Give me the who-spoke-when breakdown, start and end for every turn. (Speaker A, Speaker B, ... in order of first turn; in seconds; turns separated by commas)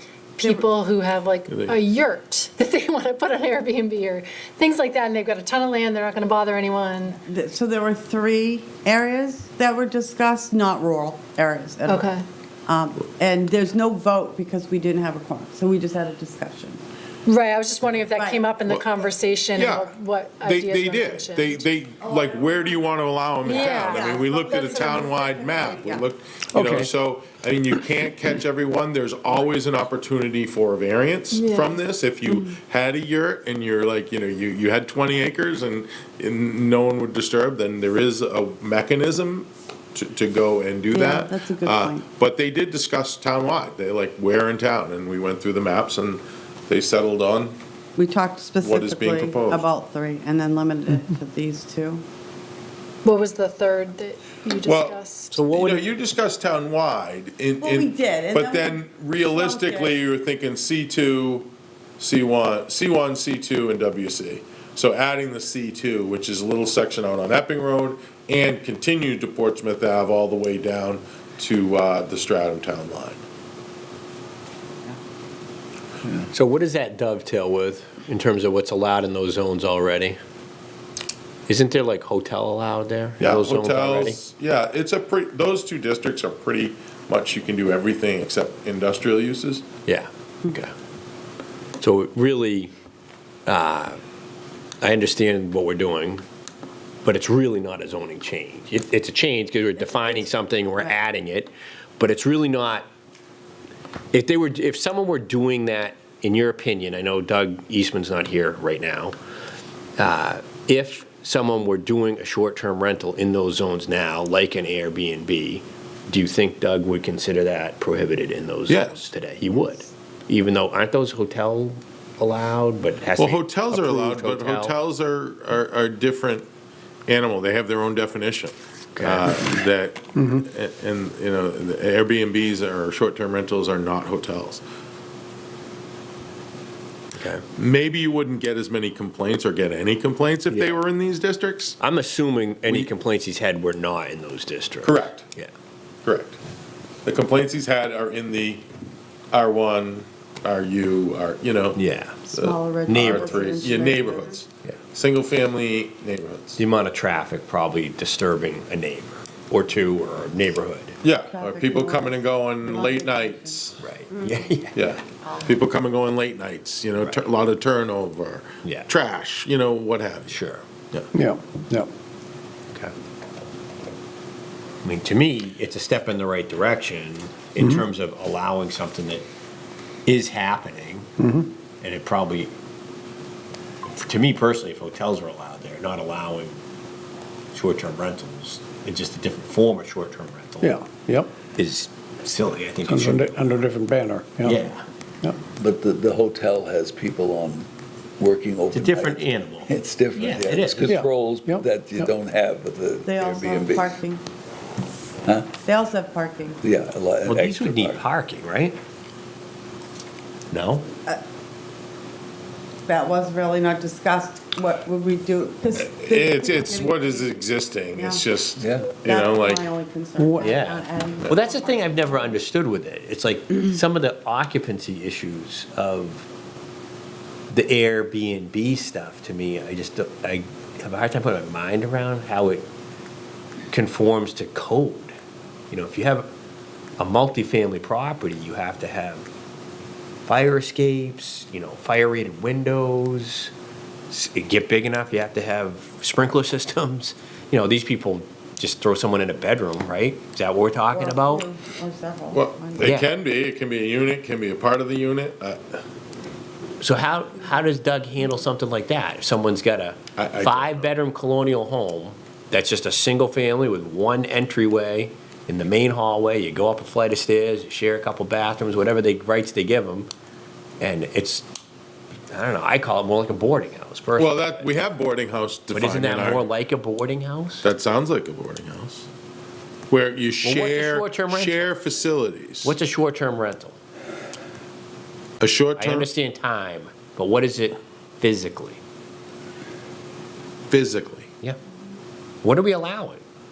Speaker A: 0.4-7.2, Speaker B: 1.5-1.8, Speaker C: 7.2-12.1, Speaker A: 11.8-12.2, Speaker C: 12.7-16.8, Speaker A: 17.2-21.6, Speaker C: 18.1-19.1, Speaker B: 18.6-47.5, Speaker C: 22.0-22.8, Speaker A: 23.4-25.7, Speaker C: 23.4-26.1, Speaker D: 26.5-26.9, Speaker A: 31.3-31.8, Speaker C: 40.9-42.0, Speaker C: 48.0-52.0, Speaker B: 48.6-49.7, Speaker A: 53.0-55.4, Speaker B: 54.6-61.5, Speaker D: 55.3-55.8, Speaker C: 57.6-60.0, Speaker B: 62.0-73.2, Speaker D: 76.3-80.2, Speaker D: 81.5-84.2, Speaker B: 83.2-89.7, Speaker D: 89.8-90.7, Speaker D: 91.8-92.7, Speaker D: 93.5-94.0, Speaker D: 94.8-96.2, Speaker D: 97.0-102.9, Speaker C: 99.8-101.0, Speaker D: 104.1-109.1, Speaker D: 110.0-124.7, Speaker B: 118.7-119.0, Speaker B: 123.2-126.5, Speaker B: 127.1-134.6, Speaker D: 128.9-129.4, Speaker E: 130.2-130.4, Speaker D: 137.2-137.4, Speaker B: 137.6-141.8, Speaker D: 140.5-140.8, Speaker D: 141.8-145.5, Speaker B: 144.8-145.3, Speaker B: 146.0-146.3, Speaker B: 147.1-148.6, Speaker B: 149.3-151.8, Speaker D: 151.7-152.2, Speaker C: 152.3-154.4, Speaker B: 152.3-156.6, Speaker D: 152.9-153.6, Speaker D: 156.6-160.9, Speaker B: 161.0-163.8, Speaker C: 161.2-163.6, Speaker D: 163.8-165.0, Speaker B: 164.7-170.4, Speaker D: 168.6-168.9, Speaker D: 170.3-170.6, Speaker E: 171.1-171.9, Speaker D: 174.8-179.2, Speaker D: 180.1-181.1, Speaker E: 181.2-181.5, Speaker D: 181.8-182.5, Speaker D: 183.9-186.6, Speaker D: 187.5-190.8, Speaker E: 190.6-191.3, Speaker D: 191.6-193.6, Speaker E: 192.8-194.6, Speaker D: 194.4-194.8, Speaker F: 195.5-197.7, Speaker F: 198.2-204.0, Speaker D: 198.7-201.0, Speaker E: 200.9-202.1, Speaker C: 203.0-204.2, Speaker F: 205.2-205.5, Speaker C: 205.6-206.6, Speaker F: 206.6-208.0, Speaker D: 207.2-208.8, Speaker D: 210.5-210.9, Speaker C: 212.8-217.4, Speaker B: 215.7-219.7, Speaker C: 217.9-218.3, Speaker F: 218.6-218.9, Speaker C: 219.0-222.4, Speaker E: 220.2-220.5, Speaker D: 220.4-226.2, Speaker D: 227.5-232.6, Speaker D: 233.7-235.1, Speaker D: 235.7-236.3, Speaker D: 237.0-239.2, Speaker D: 240.2-243.5, Speaker D: 244.1-251.4, Speaker C: 250.9-253.0, Speaker B: 252.3-255.7, Speaker D: 252.8-253.1, Speaker D: 256.8-270.1, Speaker B: 260.2-260.9, Speaker D: 270.8-271.4, Speaker D: 272.3-274.7, Speaker B: 274.2-276.5, Speaker D: 275.7-277.6, Speaker B: 277.6-279.1, Speaker B: 279.9-282.8, Speaker D: 280.4-281.8, Speaker D: 282.6-283.8, Speaker B: 285.4-286.1, Speaker D: 285.8-288.8, Speaker B: 290.7-291.3, Speaker D: 292.4-293.2